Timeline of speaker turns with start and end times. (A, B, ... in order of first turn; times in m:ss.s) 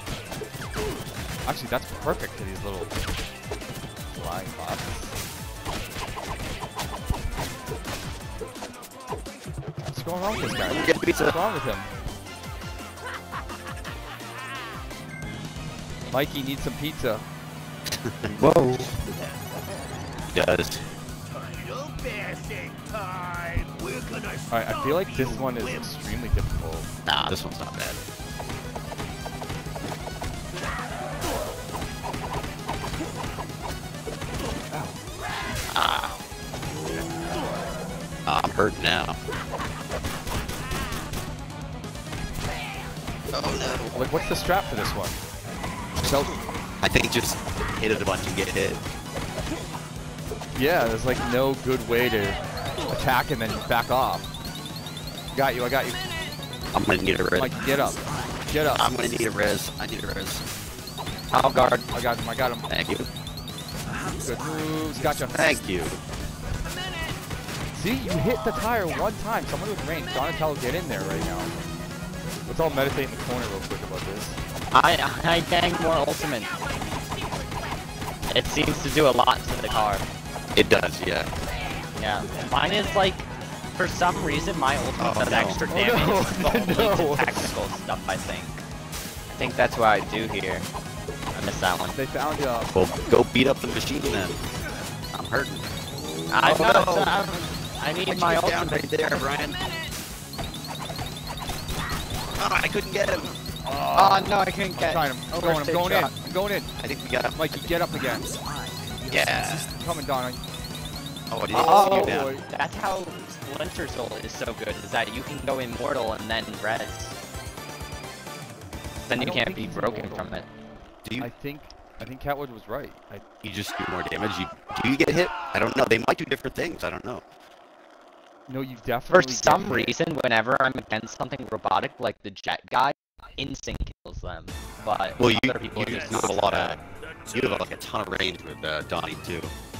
0:01.4-0:03.0 A
0:04.1-0:05.2 A
0:09.9-0:11.9 A
0:10.7-0:11.4 B
0:16.1-0:17.3 A
0:17.9-0:18.4 B
0:18.4-0:18.9 C
0:20.3-0:20.8 B
0:24.5-0:26.9 A
0:27.0-0:28.0 B
0:35.7-0:36.1 B
0:38.2-0:39.2 B
0:43.3-0:44.0 B
0:43.9-0:45.2 A
0:46.0-0:46.4 A
0:46.8-0:48.8 B
0:50.5-0:54.3 A
0:55.3-0:56.0 A
0:56.7-0:57.5 B
0:57.3-0:58.8 A
0:58.7-1:00.4 B
1:01.3-1:01.8 C
1:01.5-1:02.7 A
1:02.7-1:03.1 B
1:04.1-1:05.6 A
1:05.3-1:06.0 B
1:07.7-1:11.5 A
1:12.5-1:14.4 A
1:14.7-1:16.6 C
1:18.3-1:20.1 C
1:20.5-1:21.3 B
1:21.9-1:28.6 C
1:25.0-1:25.6 B
1:25.6-1:27.5 A
1:29.3-1:30.7 C
1:31.3-1:32.0 C
1:31.9-1:32.7 A
1:32.7-1:34.4 B
1:35.1-1:35.7 B
1:36.3-1:39.3 C
1:36.4-1:37.2 B
1:38.1-1:39.6 B
1:42.4-1:43.4 B
1:43.6-1:46.7 A
1:43.9-1:46.1 C
1:46.8-1:47.5 B
1:47.3-1:48.3 A
1:49.1-1:49.8 B
1:49.8-1:50.4 A
1:51.3-1:52.3 B
1:51.5-1:52.4 A
1:51.5-1:57.1 C
1:59.1-2:00.5 C
1:59.1-2:00.4 A
2:01.0-2:01.3 B
2:01.2-2:03.2 A
2:03.4-2:07.2 B
2:08.5-2:10.0 A
2:09.1-2:16.8 C
2:15.2-2:19.5 B